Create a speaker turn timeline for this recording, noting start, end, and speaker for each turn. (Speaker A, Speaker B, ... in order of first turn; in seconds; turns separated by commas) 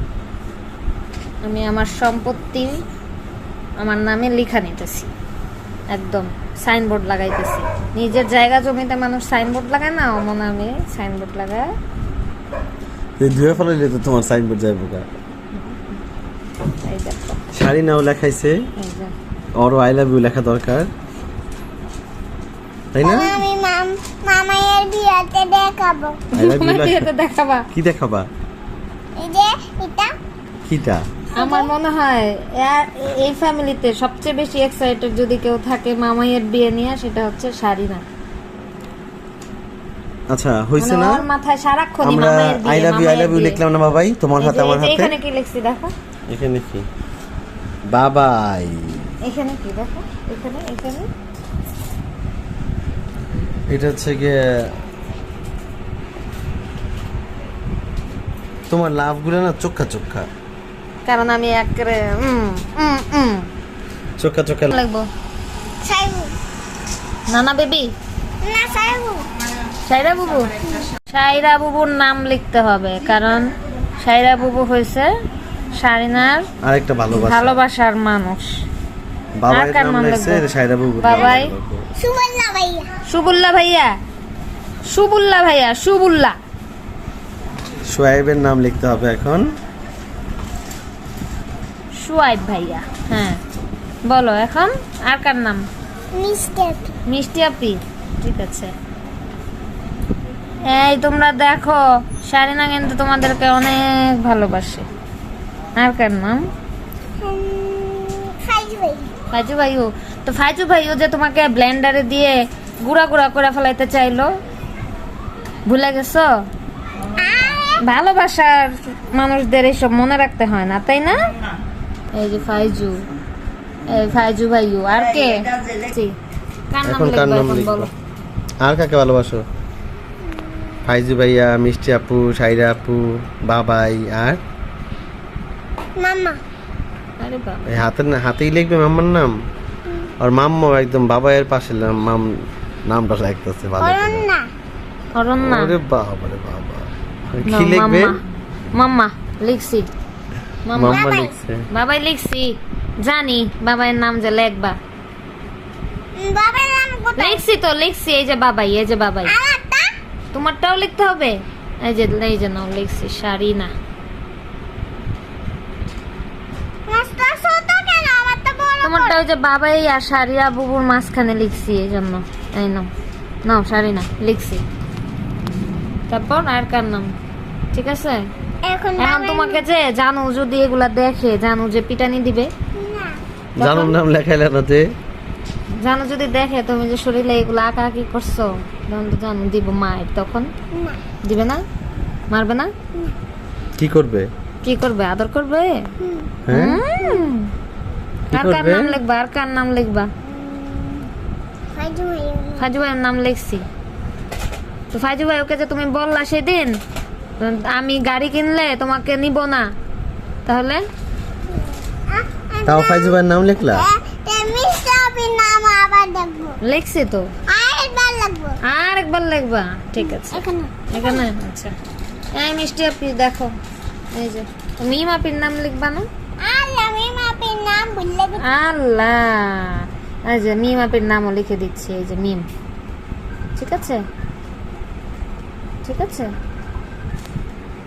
Speaker A: 1.4-2.8, Speaker A: 3.8-5.1, Speaker A: 5.9-11.7, Speaker B: 13.2-15.1, Speaker A: 16.8-17.4, Speaker B: 17.5-18.6, Speaker A: 18.8-19.1, Speaker B: 19.6-20.9, Speaker B: 22.9-23.4, Speaker C: 23.0-26.2, Speaker A: 26.3-27.7, Speaker B: 26.3-27.1, Speaker B: 27.7-28.3, Speaker C: 29.2-30.1, Speaker B: 30.6-31.0, Speaker C: 31.4-31.7, Speaker A: 31.4-38.0, Speaker B: 40.3-41.2, Speaker A: 40.8-43.6, Speaker B: 42.0-45.1, Speaker A: 44.4-45.9, Speaker B: 46.3-46.8, Speaker B: 47.9-49.0, Speaker A: 49.2-51.1, Speaker B: 53.7-54.5, Speaker B: 58.7-60.3, Speaker A: 61.0-63.5, Speaker B: 64.2-64.7, Speaker A: 64.7-65.1, Speaker C: 65.8-66.3, Speaker A: 67.3-67.9, Speaker C: 68.4-69.3, Speaker A: 69.8-70.5, Speaker A: 71.1-75.1, Speaker A: 75.7-76.5, Speaker B: 76.6-77.6, Speaker A: 77.1-78.5, Speaker B: 79.4-81.9, Speaker A: 79.5-80.4, Speaker A: 81.0-81.5, Speaker C: 82.0-82.9, Speaker A: 83.1-83.9, Speaker A: 84.9-86.3, Speaker B: 87.9-89.5, Speaker A: 92.0-93.4, Speaker A: 94.0-95.7, Speaker C: 96.1-96.9, Speaker A: 97.1-98.7, Speaker A: 100.7-104.9, Speaker A: 105.8-106.5, Speaker C: 107.2-109.1, Speaker A: 109.3-114.3, Speaker A: 115.7-116.3, Speaker C: 117.2-117.8, Speaker A: 117.8-121.2, Speaker A: 122.1-123.0, Speaker A: 123.8-126.1, Speaker A: 126.7-127.9, Speaker B: 126.8-127.9, Speaker B: 128.6-129.4, Speaker B: 130.8-134.4, Speaker C: 136.0-136.4, Speaker A: 137.2-137.7, Speaker B: 137.7-139.3, Speaker B: 140.2-142.3, Speaker B: 142.9-144.3, Speaker C: 143.8-144.4, Speaker A: 145.1-145.7, Speaker B: 145.4-148.2, Speaker A: 147.4-148.2, Speaker A: 148.8-149.9, Speaker A: 150.7-151.0, Speaker B: 150.7-151.7, Speaker C: 150.8-151.3, Speaker A: 151.7-154.8, Speaker C: 156.2-157.4, Speaker A: 157.2-159.3, Speaker C: 159.2-159.9, Speaker A: 160.3-163.7, Speaker C: 166.9-169.2, Speaker A: 168.8-172.9, Speaker A: 173.4-174.6, Speaker A: 176.1-177.1, Speaker A: 177.7-178.3, Speaker C: 178.6-179.6, Speaker A: 179.0-182.5, Speaker C: 182.8-183.2, Speaker B: 183.6-184.9, Speaker A: 183.6-183.9, Speaker A: 185.8-190.5, Speaker C: 190.7-191.0, Speaker A: 191.2-191.6, Speaker A: 192.3-192.7, Speaker B: 193.8-194.3, Speaker A: 194.6-195.8, Speaker C: 196.0-196.4, Speaker B: 196.4-196.8, Speaker A: 196.5-197.5, Speaker C: 196.9-197.3, Speaker B: 198.3-199.0, Speaker A: 198.3-200.1, Speaker C: 200.2-201.1, Speaker C: 201.7-202.7, Speaker A: 202.6-203.6, Speaker A: 204.9-206.8, Speaker A: 207.4-209.7, Speaker A: 210.4-210.8, Speaker C: 211.6-216.6, Speaker B: 212.6-213.9, Speaker A: 216.6-217.3, Speaker C: 217.5-218.6, Speaker A: 218.6-221.7, Speaker C: 220.0-221.2, Speaker A: 222.3-223.5, Speaker A: 224.1-226.1, Speaker C: 226.4-228.4, Speaker A: 228.4-232.4, Speaker A: 233.6-234.0, Speaker A: 235.8-236.3